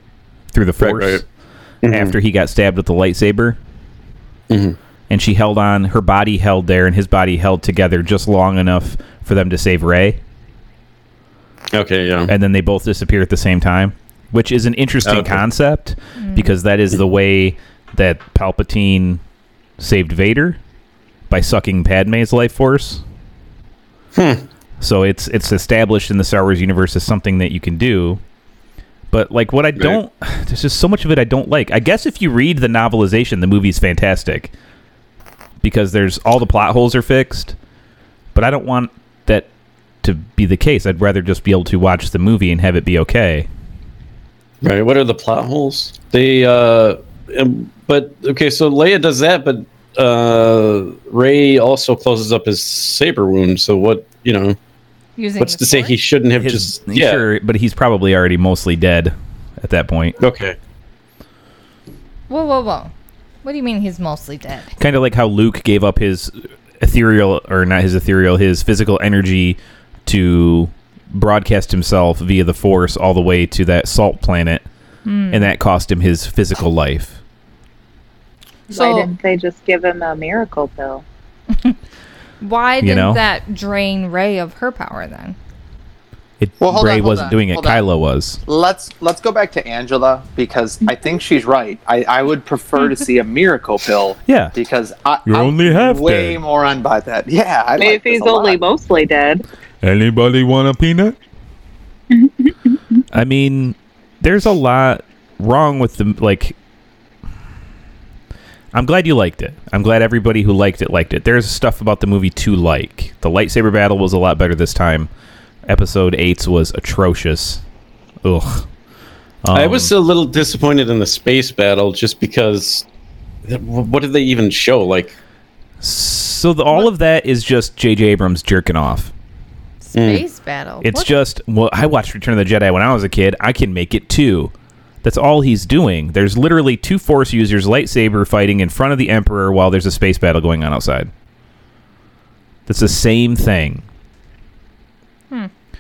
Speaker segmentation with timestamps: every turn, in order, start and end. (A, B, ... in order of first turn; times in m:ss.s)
0:00.5-0:01.2 A
0:00.8-0:01.2 B
0:01.8-0:02.1 B
0:01.9-0:03.6 A
0:04.5-0:04.8 B
0:05.1-0:10.2 A
0:11.7-0:12.3 B
0:12.3-0:19.2 A
0:15.0-0:15.4 B
0:16.2-0:16.5 C
0:19.8-0:20.6 A
0:21.3-0:23.0 A
0:24.1-0:24.4 B
0:24.8-0:28.2 A
0:29.1-0:34.5 A
0:35.6-0:37.6 A
0:38.3-0:39.5 A
0:40.0-0:43.5 A
0:44.6-0:54.6 B
0:55.2-0:56.0 C
0:55.4-0:57.2 B
0:56.4-1:00.2 A
1:00.2-1:00.6 B
1:02.3-1:02.9 C
1:03.4-1:04.7 C
1:04.8-1:14.6 A
1:15.0-1:15.5 C
1:15.3-1:17.2 A
1:18.7-1:21.0 D
1:18.7-1:19.1 C
1:22.4-1:25.4 C
1:22.8-1:23.2 A
1:26.4-1:28.4 A
1:26.6-1:27.8 E
1:28.4-1:38.6 E
1:34.3-1:34.5 A
1:35.2-1:36.4 A
1:37.8-1:39.4 D
1:39.8-1:41.2 A
1:42.1-1:42.8 D
1:43.1-1:46.6 A
1:48.7-1:55.1 A
1:55.7-1:57.6 A
1:58.2-1:58.7 A
1:59.4-1:59.9 A
1:59.5-2:02.8 B
2:03.4-2:05.2 B
2:05.8-2:09.1 A
2:09.8-2:11.1 C
2:09.9-2:10.2 B
2:10.8-2:14.5 A
2:15.0-2:21.1 A
2:22.7-2:23.8 A